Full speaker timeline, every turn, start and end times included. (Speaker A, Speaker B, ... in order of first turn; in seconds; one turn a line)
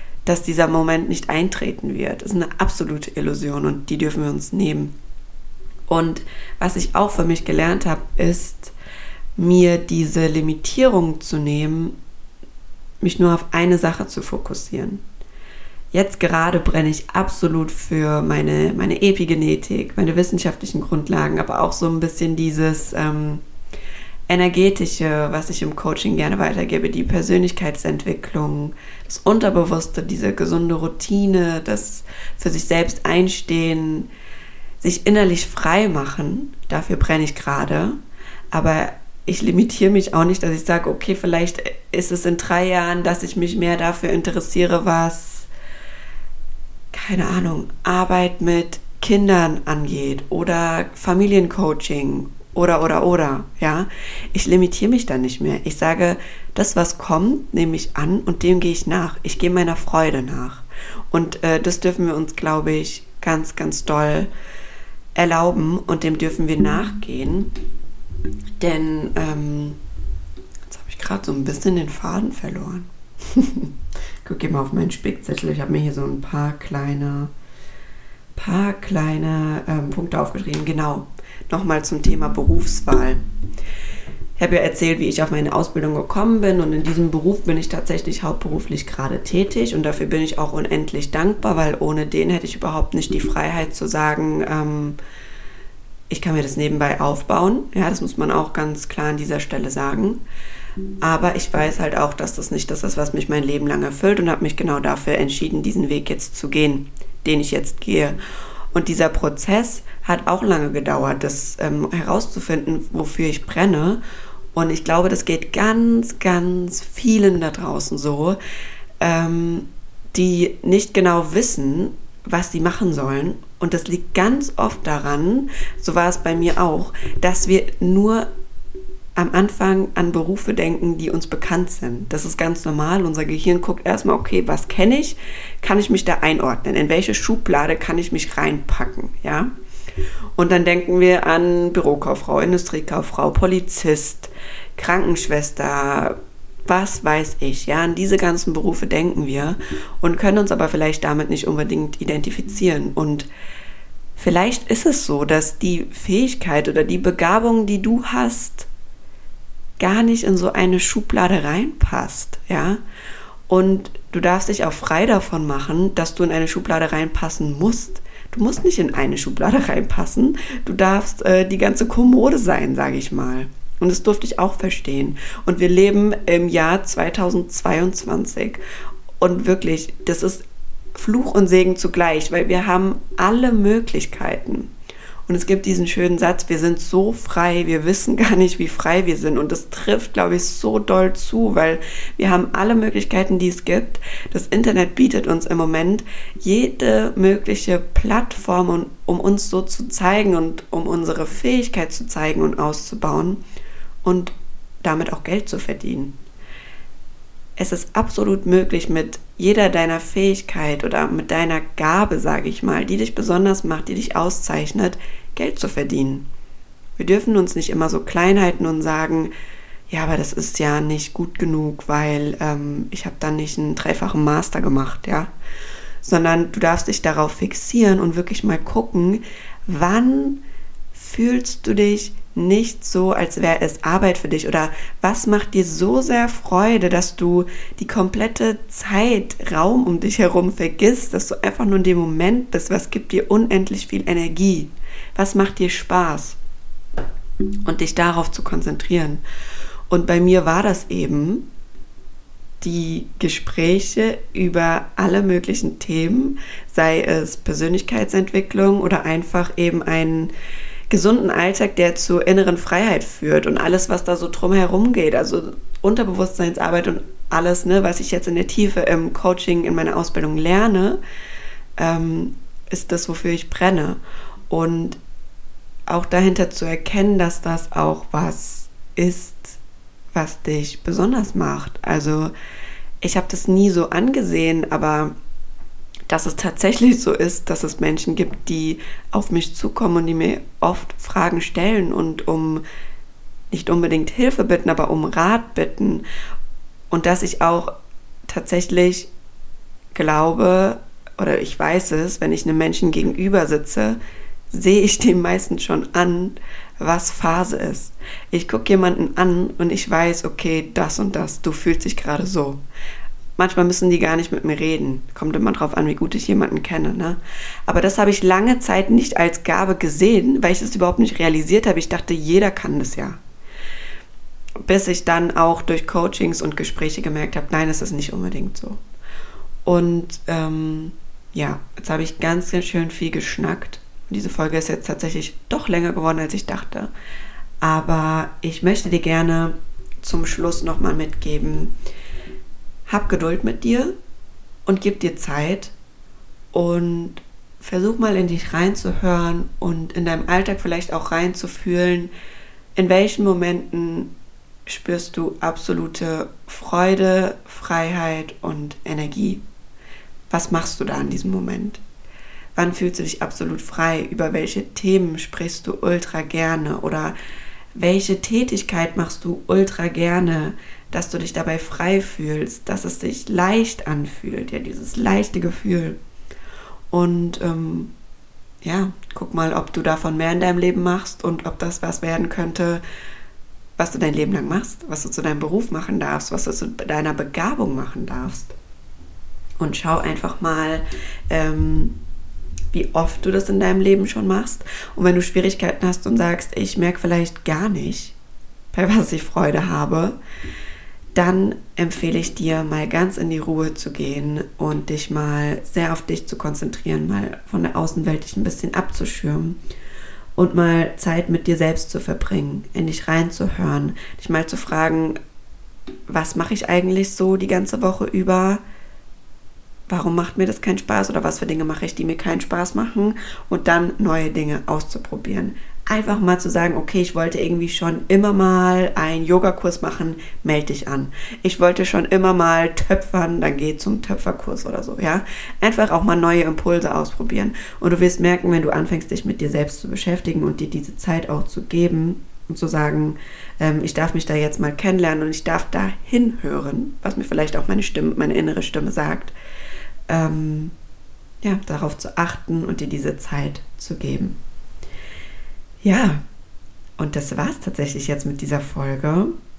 Speaker A: 0.3-4.9
Speaker A: 5.9-8.7
Speaker A: 9.4-11.9
Speaker A: 13.0-15.0
Speaker A: 15.9-23.4
Speaker A: 24.3-34.1
Speaker A: 34.8-38.0
Speaker A: 38.5-45.5
Speaker A: 46.9-64.3
Speaker A: 65.2-67.5
Speaker A: 68.6-69.8
Speaker A: 70.7-73.7
Speaker A: 74.2-77.3
Speaker A: 78.3-83.2
Speaker A: 84.4-95.0
Speaker A: 96.1-100.2
Speaker A: 101.0-108.2
Speaker A: 108.7-114.0
Speaker A: 114.5-118.4
Speaker A: 119.0-128.3
Speaker A: 129.2-139.5
Speaker A: 140.4-146.2
Speaker A: 146.7-153.3
Speaker A: 154.2-158.7
Speaker A: 159.8-162.8
Speaker A: 163.5-178.6
Speaker A: 179.2-180.4
Speaker A: 180.9-184.7
Speaker A: 185.3-203.4
Speaker A: 204.0-206.1
Speaker A: 207.6-216.2
Speaker A: 217.0-219.3
Speaker A: 219.9-225.3
Speaker A: 226.0-230.4
Speaker A: 230.9-246.4
Speaker A: 247.7-249.2
Speaker A: 249.9-251.5
Speaker A: 252.6-260.3
Speaker A: 260.9-271.0
Speaker A: 271.8-274.0
Speaker A: 274.5-275.0
Speaker A: 275.9-279.6
Speaker A: 280.1-282.3
Speaker A: 283.0-285.1
Speaker A: 286.1-292.6
Speaker A: 293.5-296.0
Speaker A: 296.9-297.7
Speaker A: 298.3-299.1
Speaker A: 299.9-304.0
Speaker A: 304.5-312.6
Speaker A: 313.4-323.2
Speaker A: 324.6-328.8
Speaker A: 329.6-336.9
Speaker A: 337.6-341.7
Speaker A: 342.9-343.9
Speaker A: 344.7-345.7
Speaker A: 346.5-352.1
Speaker A: 352.8-354.1
Speaker A: 354.7-359.4
Speaker A: 360.3-361.8
Speaker A: 362.6-367.1
Speaker A: 367.8-376.0
Speaker A: 376.9-377.9
Speaker A: 378.6-382.8
Speaker A: 383.8-388.6
Speaker A: 389.6-392.0
Speaker A: 392.7-398.2
Speaker A: 398.7-400.2
Speaker A: 401.1-409.6
Speaker A: 410.4-415.2
Speaker A: 416.1-418.6
Speaker A: 419.9-449.3
Speaker A: 450.1-450.7
Speaker A: 451.4-454.4
Speaker A: 455.8-456.2
Speaker A: 457.0-459.3